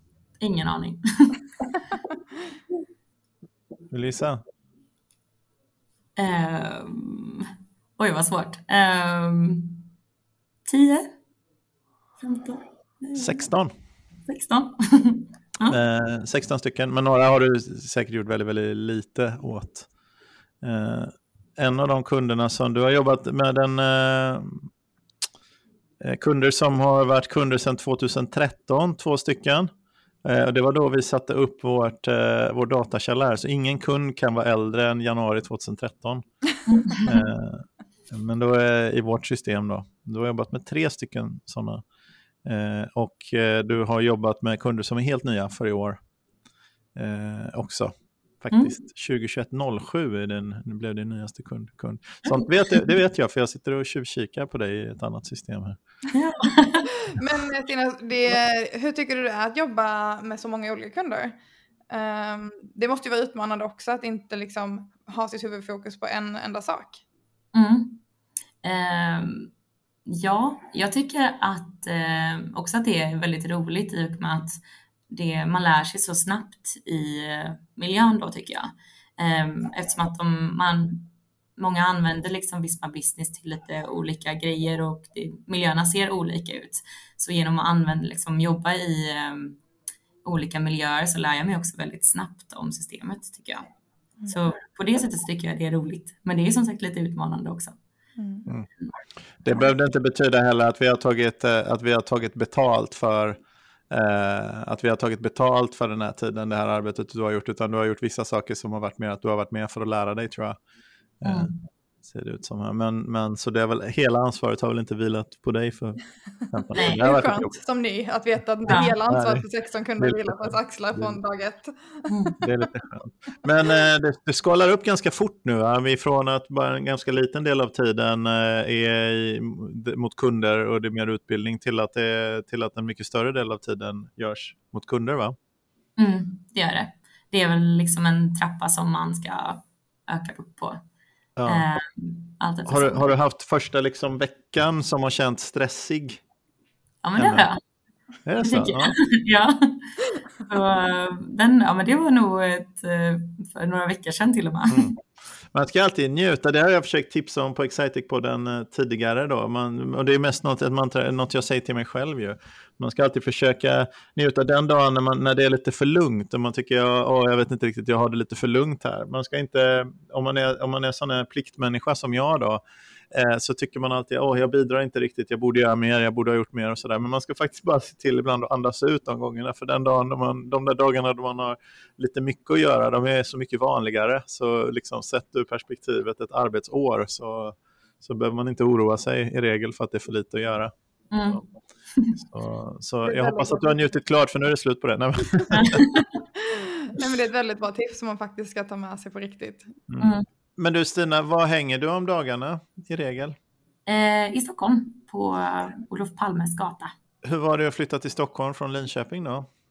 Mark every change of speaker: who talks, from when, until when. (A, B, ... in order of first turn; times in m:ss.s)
0:00.4-0:01.8 A
0:03.9-0:04.4 B
0:06.2-0:09.8 A
0:10.7-0:11.1 A
0:12.2-0:13.4 A
0:13.2-0:13.7 B
0:14.3-0:15.8 A
0:15.7-0:19.9 B
0:20.6-0:24.7 B
0:26.0-0:29.7 B
0:30.2-0:36.2 B
0:36.7-0:37.1 A
0:37.0-0:41.8 B
0:42.4-0:46.0 B
0:46.9-0:55.8 B
0:56.1-0:56.9 A
0:57.1-1:01.4 C
1:01.9-1:07.0 C
1:07.5-1:08.0 A
1:08.6-1:09.5 A
1:10.0-1:14.6 A
1:15.1-1:29.6 A
1:30.2-1:33.6 A
1:34.3-1:37.8 A
1:38.2-1:38.5 C
1:39.4-1:50.6 B
1:51.2-1:51.5 B
1:51.2-1:51.6 A
1:52.0-1:57.5 B
1:56.8-2:02.1 C
1:58.7-1:58.9 A
1:59.1-1:59.4 B
2:00.0-2:01.2 B
2:02.1-2:02.3 A
2:02.4-2:15.4 B
2:16.0-2:20.8 A
2:21.4-2:21.6 B
2:21.5-2:23.0 A
2:22.7-2:26.2 B
2:27.0-2:27.6 A
2:27.2-2:27.4 B
2:28.2-2:29.0 B
2:28.4-2:34.9 A
2:35.5-3:10.7 B
3:11.1-3:11.4 A
3:12.2-3:15.8 B
3:13.0-3:13.8 C
3:15.5-3:16.2 A
3:16.4-3:19.8 C
3:19.9-3:23.4 B
3:23.9-3:26.9 A
3:27.2-3:29.5 B